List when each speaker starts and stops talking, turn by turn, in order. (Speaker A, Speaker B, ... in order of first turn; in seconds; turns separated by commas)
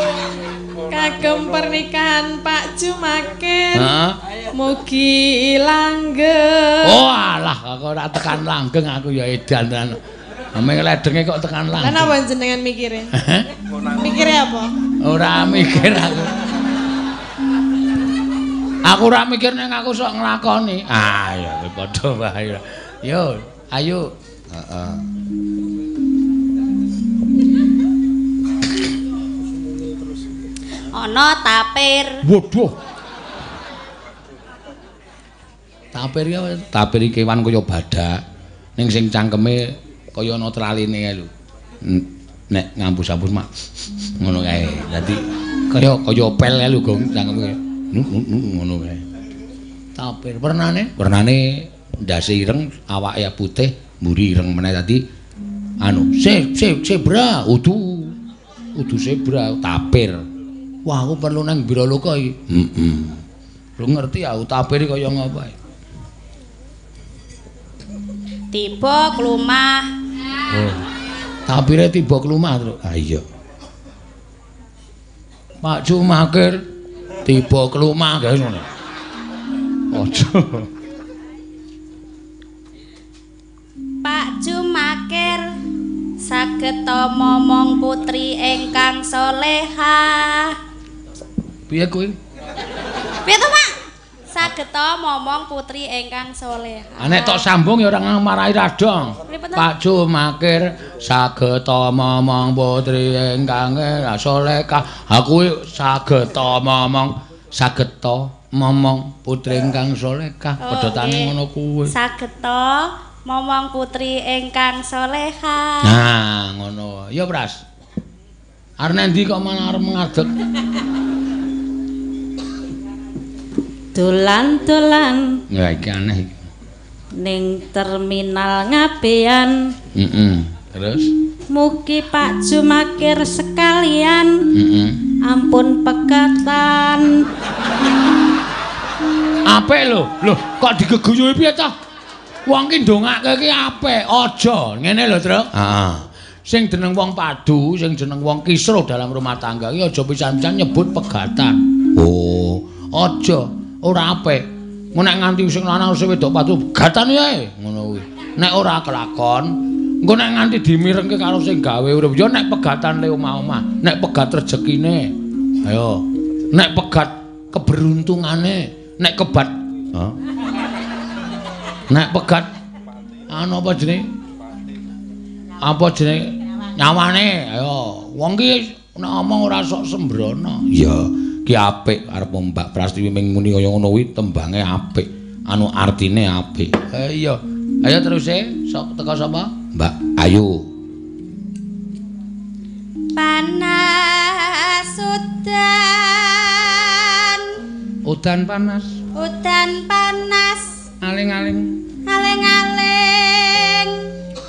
Speaker A: 0.9-3.9, Speaker B: 3.7-4.2, Speaker A: 4.5-7.0, Speaker B: 6.8-10.0, Speaker B: 10.6-12.2, Speaker A: 11.8-13.1, Speaker B: 13.1-13.5, Speaker A: 13.9-14.7, Speaker B: 15.0-16.4, Speaker B: 18.9-25.1, Speaker C: 30.9-32.2, Speaker B: 32.2-32.8, Speaker B: 35.9-38.2, Speaker B: 38.8-43.5, Speaker B: 44.1-49.0, Speaker B: 50.0-55.0, Speaker B: 55.8-58.2, Speaker B: 58.8-60.2, Speaker B: 60.9-63.2, Speaker B: 63.8-65.6, Speaker C: 68.5-69.9, Speaker B: 70.5-70.8, Speaker B: 71.5-73.2, Speaker B: 75.6-76.6, Speaker B: 77.2-78.7, Speaker B: 79.9-80.7, Speaker C: 84.0-85.6, Speaker C: 86.2-90.6, Speaker B: 91.7-92.2, Speaker C: 93.2-93.8, Speaker C: 94.3-97.5, Speaker B: 97.0-111.9, Speaker C: 99.3-99.7, Speaker C: 110.6-111.3, Speaker C: 111.9-116.0, Speaker B: 115.8-117.6, Speaker B: 118.8-120.3, Speaker D: 123.9-125.4, Speaker B: 125.5-126.4, Speaker D: 127.2-129.7, Speaker B: 129.9-131.1, Speaker D: 131.5-134.4, Speaker B: 134.5-135.0, Speaker D: 135.2-137.1, Speaker B: 139.5-141.8, Speaker B: 142.5-165.1, Speaker B: 165.6-170.2, Speaker B: 171.9-172.5, Speaker B: 173.3-174.1, Speaker B: 175.6-190.7, Speaker C: 193.2-197.6, Speaker B: 198.1-199.0, Speaker C: 199.2-200.8, Speaker B: 201.0-201.8, Speaker C: 202.1-204.1